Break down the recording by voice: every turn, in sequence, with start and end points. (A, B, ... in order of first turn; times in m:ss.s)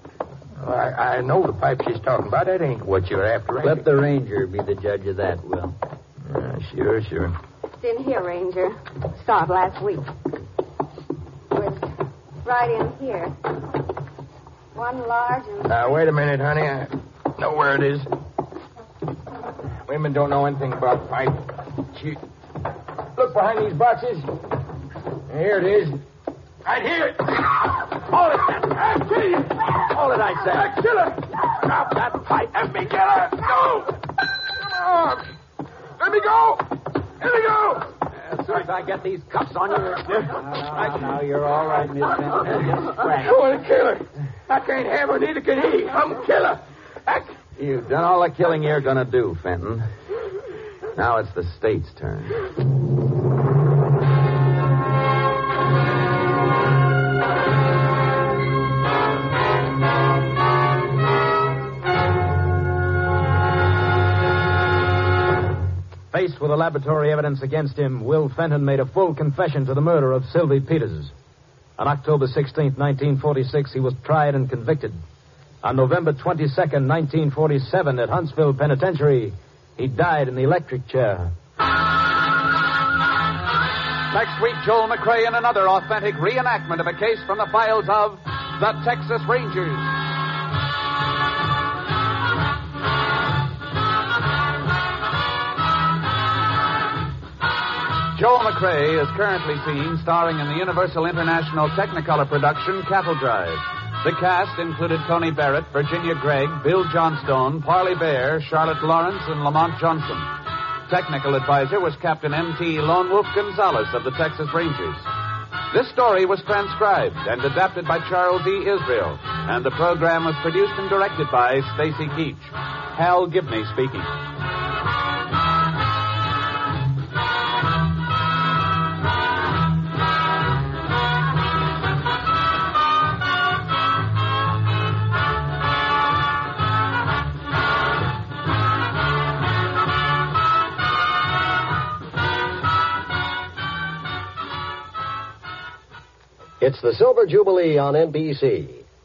0:00.6-0:03.9 A
0:03.6-0:05.8 B
0:06.2-0:07.3 A
0:07.8-0:10.1 C
0:11.5-0:11.8 C
0:12.4-0:13.4 C
0:14.7-0:15.9 C
0:15.6-0:18.1 A
0:19.8-0:22.2 A
0:23.2-0:24.3 A
0:25.3-0:26.0 A
0:26.6-0:35.3 A
0:30.0-0:30.6 D
0:36.0-0:38.0 A
0:38.5-0:40.2 D
0:38.9-0:39.2 B
0:40.3-0:43.3 B
0:42.8-0:47.4 A
0:47.6-0:49.9 E
0:50.9-0:52.4 E
1:06.1-1:11.1 D
1:11.8-1:15.0 D
1:15.6-1:21.3 D
1:24.1-1:29.9 F
1:38.1-1:50.3 F
1:50.9-1:55.0 F
1:55.7-2:04.1 F
2:26.6-2:28.8 G